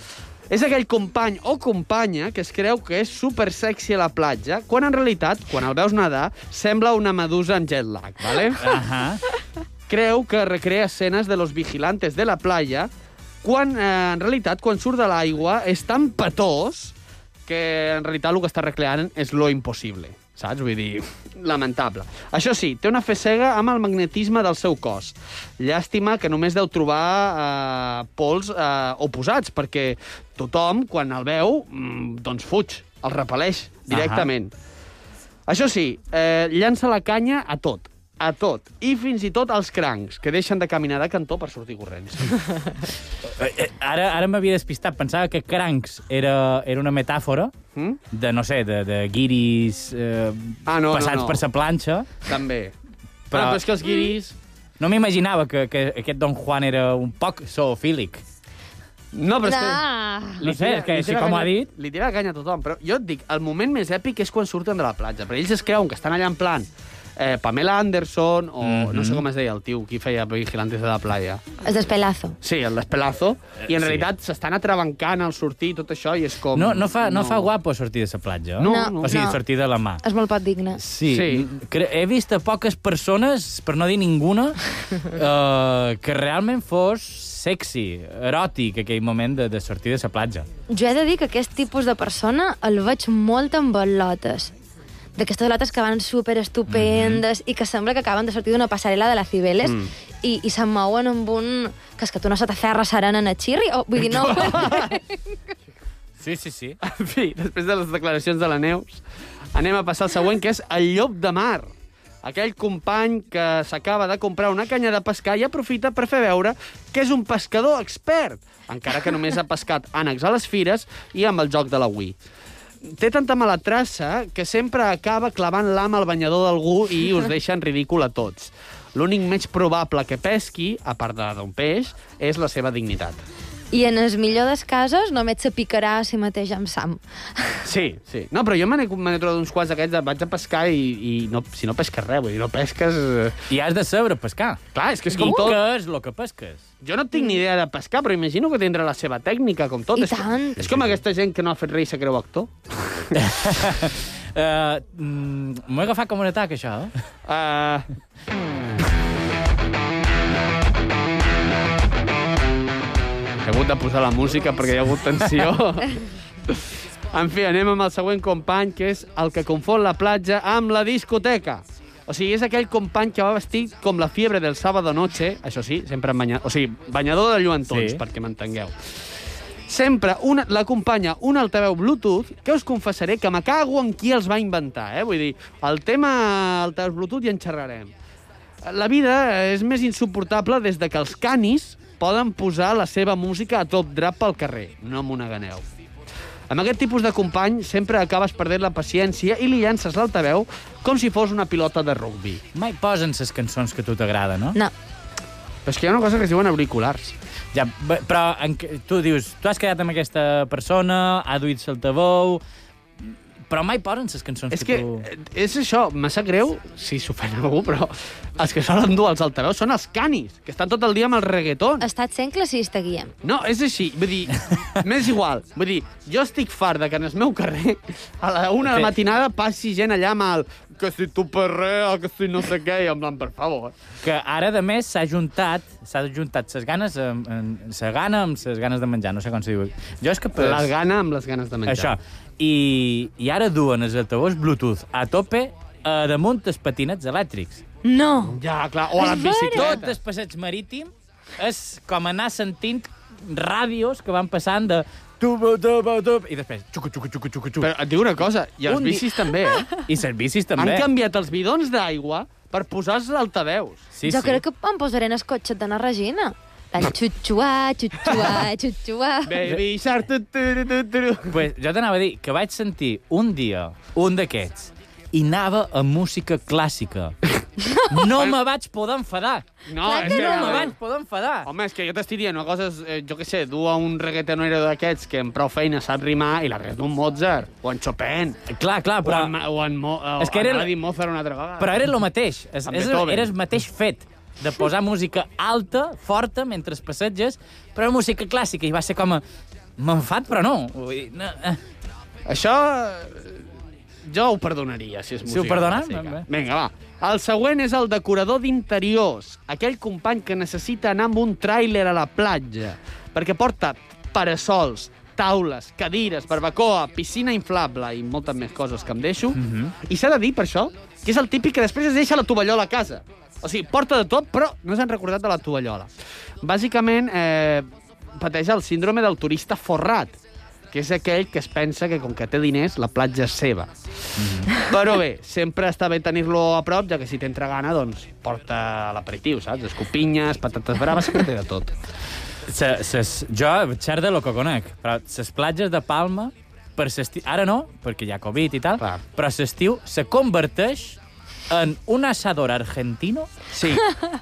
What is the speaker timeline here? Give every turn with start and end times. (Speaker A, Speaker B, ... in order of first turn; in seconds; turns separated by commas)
Speaker A: 0.5-8.7, Speaker B: 8.3-9.2, Speaker A: 9.9-12.9, Speaker A: 13.4-16.9, Speaker A: 17.5-34.5, Speaker B: 33.9-34.3, Speaker A: 35.5-42.6, Speaker B: 43.2-47.5, Speaker A: 47.7-48.0, Speaker B: 48.1-52.1, Speaker A: 50.7-51.4, Speaker A: 52.2-52.7, Speaker B: 53.3-53.6, Speaker A: 53.3-54.4, Speaker B: 54.8-58.2, Speaker A: 59.1-59.8, Speaker C: 59.4-60.4, Speaker A: 60.4-71.4, Speaker B: 60.4-61.7, Speaker B: 68.6-69.2, Speaker C: 71.6-72.3, Speaker A: 72.4-77.5, Speaker B: 73.7-74.1, Speaker B: 76.5-80.0, Speaker A: 78.6-79.2, Speaker C: 78.6-79.4, Speaker C: 80.0-80.8, Speaker B: 80.7-90.5, Speaker A: 81.1-81.5, Speaker C: 90.7-94.5, Speaker C: 95.2-105.2, Speaker B: 96.7-97.2, Speaker A: 99.6-99.9, Speaker A: 104.0-104.9, Speaker B: 106.2-106.8, Speaker A: 106.8-109.0, Speaker A: 109.5-111.7, Speaker A: 112.2-122.2, Speaker A: 122.8-133.2, Speaker C: 133.7-137.6, Speaker A: 137.6-143.4, Speaker B: 143.5-146.7, Speaker A: 144.7-145.6, Speaker C: 145.2-145.5, Speaker A: 146.8-153.2, Speaker C: 149.9-150.8, Speaker B: 153.1-156.9, Speaker A: 157.3-157.9, Speaker A: 163.4-178.8, Speaker B: 177.7-178.0, Speaker A: 179.7-187.9, Speaker A: 188.6-195.6, Speaker A: 196.5-202.4, Speaker B: 202.5-204.6, Speaker A: 205.7-207.1, Speaker B: 207.5-212.4, Speaker B: 213.0-215.0, Speaker A: 214.5-221.8, Speaker C: 221.8-223.1, Speaker A: 223.2-233.7, Speaker B: 228.6-228.9, Speaker B: 234.0-240.7, Speaker A: 240.4-241.9, Speaker B: 241.7-247.6, Speaker C: 247.8-248.4, Speaker A: 248.3-249.9, Speaker C: 249.0-249.8, Speaker B: 249.5-257.7, Speaker A: 257.6-259.7, Speaker B: 258.7-259.0, Speaker C: 259.3-259.6, Speaker B: 259.8-260.9, Speaker A: 260.6-263.9, Speaker B: 263.9-264.4, Speaker C: 264.1-269.3, Speaker A: 269.2-271.4, Speaker B: 271.3-277.1, Speaker B: 277.9-281.5, Speaker A: 279.7-280.7, Speaker C: 279.8-280.7, Speaker A: 281.4-288.4, Speaker B: 288.5-289.3, Speaker A: 289.0-291.8, Speaker B: 290.2-290.7, Speaker B: 291.6-299.2, Speaker A: 292.6-293.3, Speaker B: 299.8-301.6, Speaker A: 302.3-303.4, Speaker A: 304.1-325.9, Speaker B: 305.3-306.3, Speaker B: 319.3-319.7, Speaker A: 326.4-330.2, Speaker A: 330.7-341.7, Speaker B: 334.2-334.5, Speaker B: 342.4-353.3, Speaker A: 353.5-353.9